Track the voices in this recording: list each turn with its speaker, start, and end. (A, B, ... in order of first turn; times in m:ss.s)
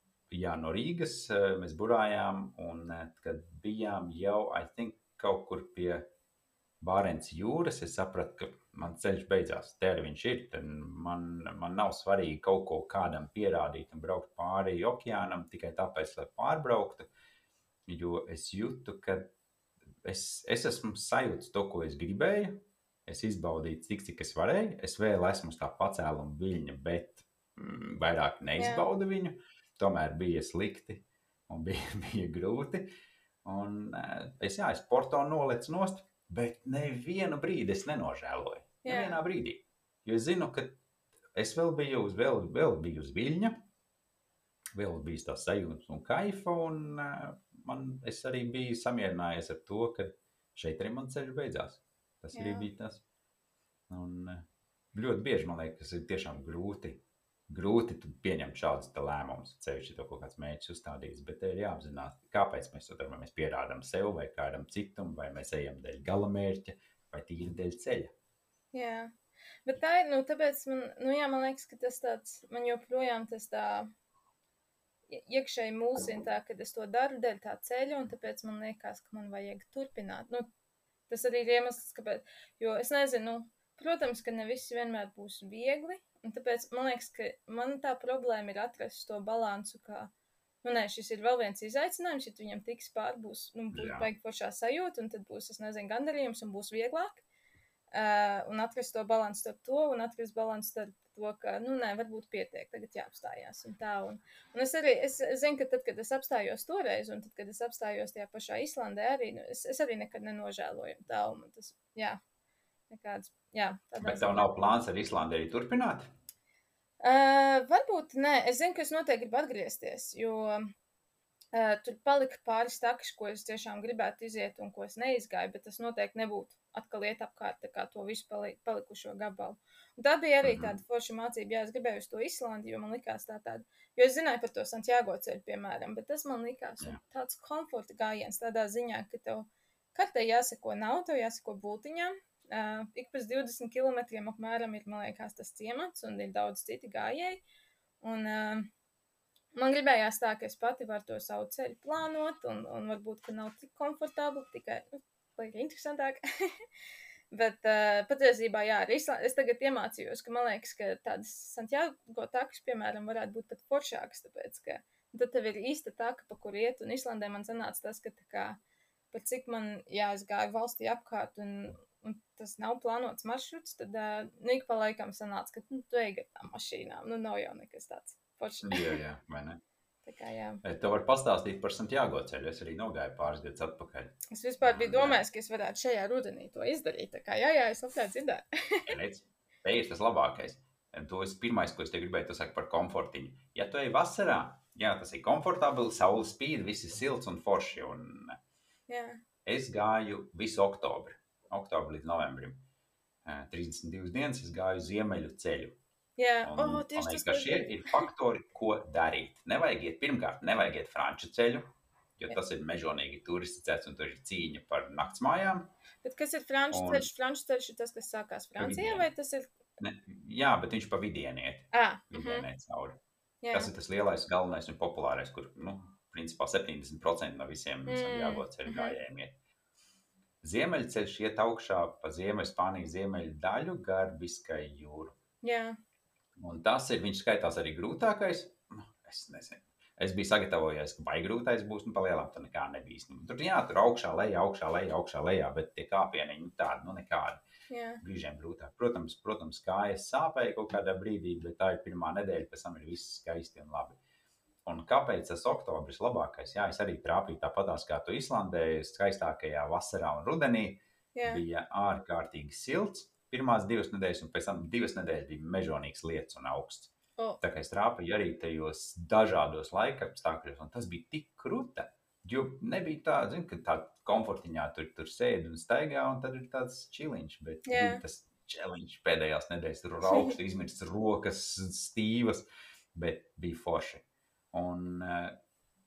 0:00.3-0:06.1 A
0:06.8-0:17.1 A
0:17.9-0:19.3 A
0:20.0-0:32.9 A
0:28.6-0:28.9 B
0:33.4-0:40.8 A
0:38.8-0:39.2 B
0:41.4-0:43.6 A
0:44.8-0:53.0 A
0:52.3-0:52.7 B
0:53.9-1:08.1 A
1:08.7-1:09.1 B
1:09.7-1:13.9 B
1:15.1-1:20.5 B
1:21.1-1:30.1 B
1:30.6-1:37.2 B
1:33.7-1:34.1 A
1:37.9-1:52.2 B
1:52.9-1:54.6 B
1:54.0-1:56.1 A
1:57.0-2:00.6 B
2:01.5-2:27.4 B
2:10.4-2:10.8 A
2:28.0-2:28.7 B
2:29.6-2:36.2 B
2:37.3-2:48.6 B
2:49.1-2:59.0 B
2:58.6-2:59.6 A
3:00.0-3:00.6 B
3:00.6-3:05.2 A
3:04.3-3:08.8 B
3:08.9-3:18.4 A
3:18.9-3:19.2 B
3:19.4-3:22.6 A
3:23.2-3:25.8 A
3:26.2-3:28.1 B
3:26.4-3:35.7 A
3:36.0-3:39.5 B
3:36.7-3:37.1 A
3:38.6-3:39.1 A
3:39.8-3:43.0 A
3:41.7-3:42.5 B
3:43.4-3:43.7 B
3:43.5-3:49.4 A
3:47.9-3:49.0 B
3:50.4-3:55.2 A
3:55.4-3:55.8 B
3:56.4-4:07.4 A
4:07.7-4:08.0 B
4:08.0-4:14.0 A
4:14.7-4:45.4 A
4:21.2-4:21.4 B
4:37.7-4:38.0 B
4:40.0-4:40.4 B